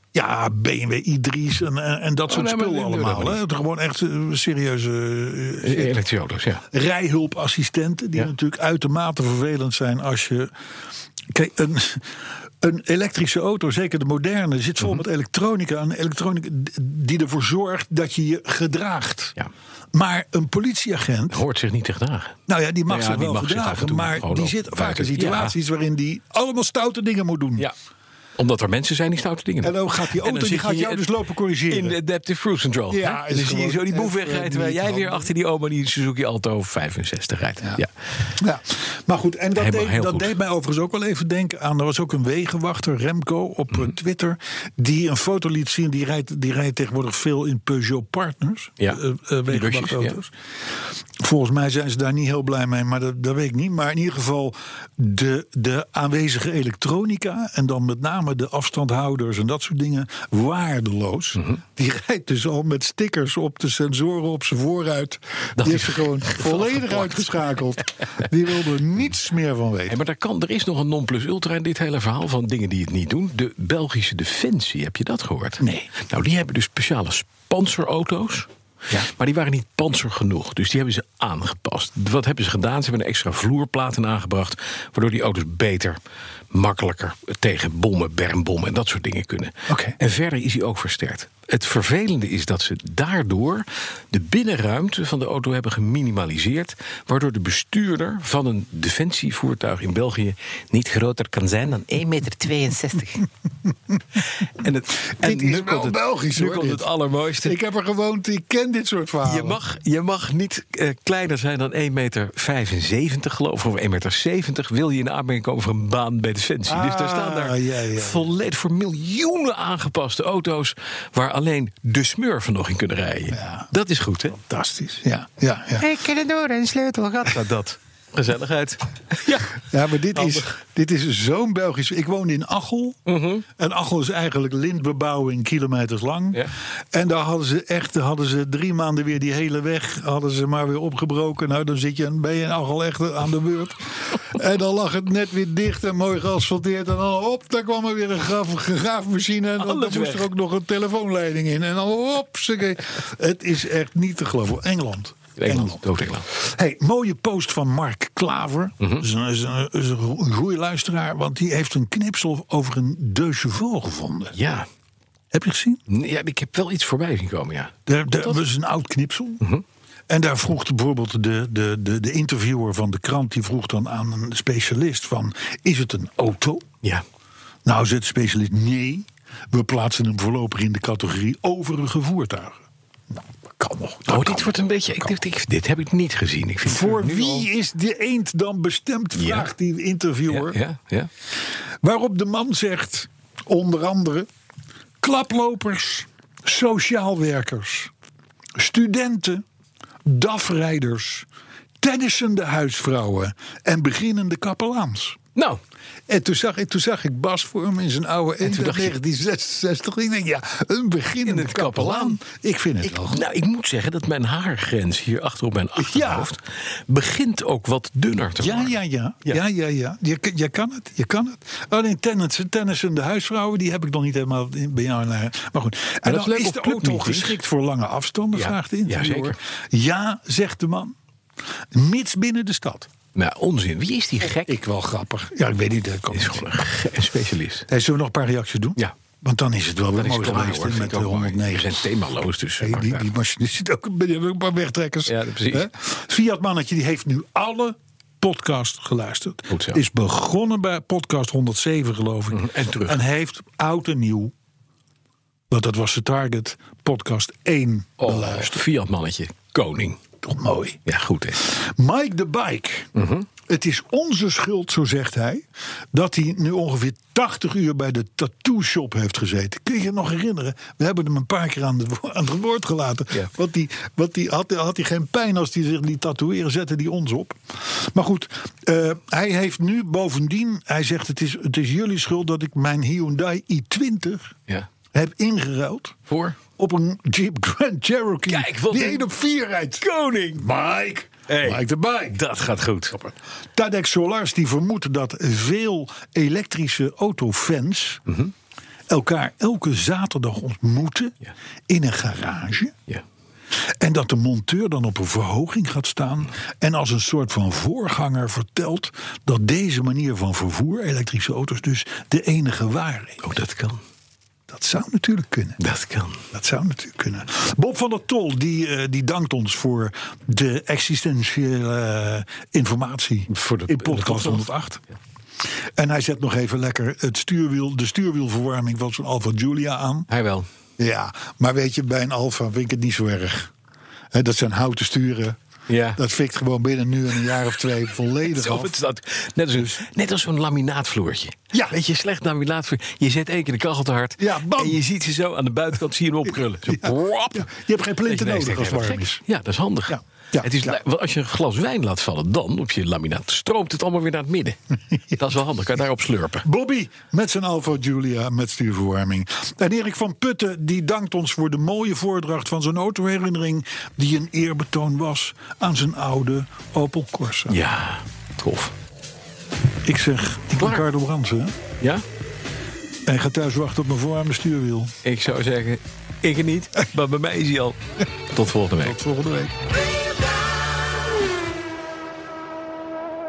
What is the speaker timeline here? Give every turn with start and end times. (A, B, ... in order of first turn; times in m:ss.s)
0:00.1-0:06.0 A
0:02.3-0:03.4 B
0:05.6-0:06.6 B
0:06.7-0:10.5 A
0:11.3-0:19.4 A
0:19.9-0:21.4 A
0:21.3-0:22.4 B
0:22.5-0:27.7 A
0:22.9-0:25.5 B
0:28.4-0:31.0 B
0:29.6-0:31.9 A
0:31.7-0:37.9 B
0:32.9-0:35.3 A
0:38.4-0:50.3 A
0:39.6-0:40.3 B
0:48.8-0:50.2 B
0:51.2-1:10.0 A
1:05.6-1:07.4 B
1:09.9-1:26.0 B
1:15.6-1:15.9 A
1:26.5-1:43.3 B
1:29.7-1:30.0 A
1:44.4-1:47.6 B
1:45.1-1:46.9 A
1:47.4-1:49.6 A
1:49.2-2:04.5 B
1:56.7-1:58.3 A
2:03.3-2:03.7 A
2:04.4-2:06.0 A
2:05.8-2:10.5 B
2:09.7-2:13.0 A
2:13.0-2:13.4 B
2:13.6-2:44.3 A
2:29.6-2:30.3 B
2:35.4-2:36.2 B
2:44.3-2:44.7 B
2:45.3-2:45.8 A
2:45.9-2:48.4 B
2:47.9-2:49.4 A
2:50.1-2:56.7 A
2:57.6-3:02.6 A
3:03.2-3:05.2 A
3:04.1-3:07.5 B
3:06.6-3:10.6 A
3:09.2-3:09.5 B
3:10.3-3:11.1 B
3:11.8-3:14.3 A
3:15.0-3:17.9 A
3:18.6-3:19.4 A
3:20.0-3:21.2 A
3:21.8-3:25.2 A
3:26.1-3:33.2 A
3:28.4-3:28.9 B
3:31.2-3:32.2 B
3:32.8-3:38.8 B
3:35.8-3:36.3 A
3:38.4-3:51.0 A
3:46.0-3:47.4 B
3:48.3-3:49.4 B
3:51.7-3:52.9 A
3:53.1-3:54.5 B
3:54.2-3:56.4 A
3:56.1-3:57.7 B
3:57.7-4:01.8 A
4:00.0-4:03.1 B
4:02.6-4:14.3 A
4:05.1-4:05.7 B
4:09.5-4:09.8 B
4:12.3-4:13.0 B
4:15.5-4:18.6 A
4:18.0-4:20.0 B
4:20.2-4:20.8 A
4:20.8-4:21.4 B
4:21.4-4:22.9 A
4:23.0-4:23.3 B
4:23.4-4:44.4 A
4:44.9-4:46.0 A
4:46.1-4:46.4 B
4:46.6-4:52.2 A
4:48.2-4:49.0 B
4:49.8-4:50.5 B
4:51.3-4:53.1 B
4:53.5-4:58.0 A
4:58.9-5:01.1 A
5:01.7-5:02.7 A
5:03.5-5:13.2 A
5:13.2-5:13.8 B
5:14.5-5:15.6 A
5:15.6-5:16.2 B
5:16.3-5:24.8 A
5:23.3-5:24.5 B
5:25.8-5:30.1 A
5:30.1-5:30.5 B
5:30.8-5:33.5 A
5:34.1-5:35.4 A
5:35.7-5:36.0 B
5:36.0-5:38.7 A
5:38.3-5:47.5 B
5:41.5-5:41.8 A
5:44.2-5:44.8 A
5:46.6-5:49.2 A
5:48.0-5:54.6 B
5:49.9-5:50.8 A
5:55.1-5:56.4 B
5:56.4-6:07.6 A
6:07.5-6:08.7 B
6:09.8-6:11.5 A
6:13.0-6:14.9 A
6:15.0-6:19.0 B
6:18.8-6:19.5 A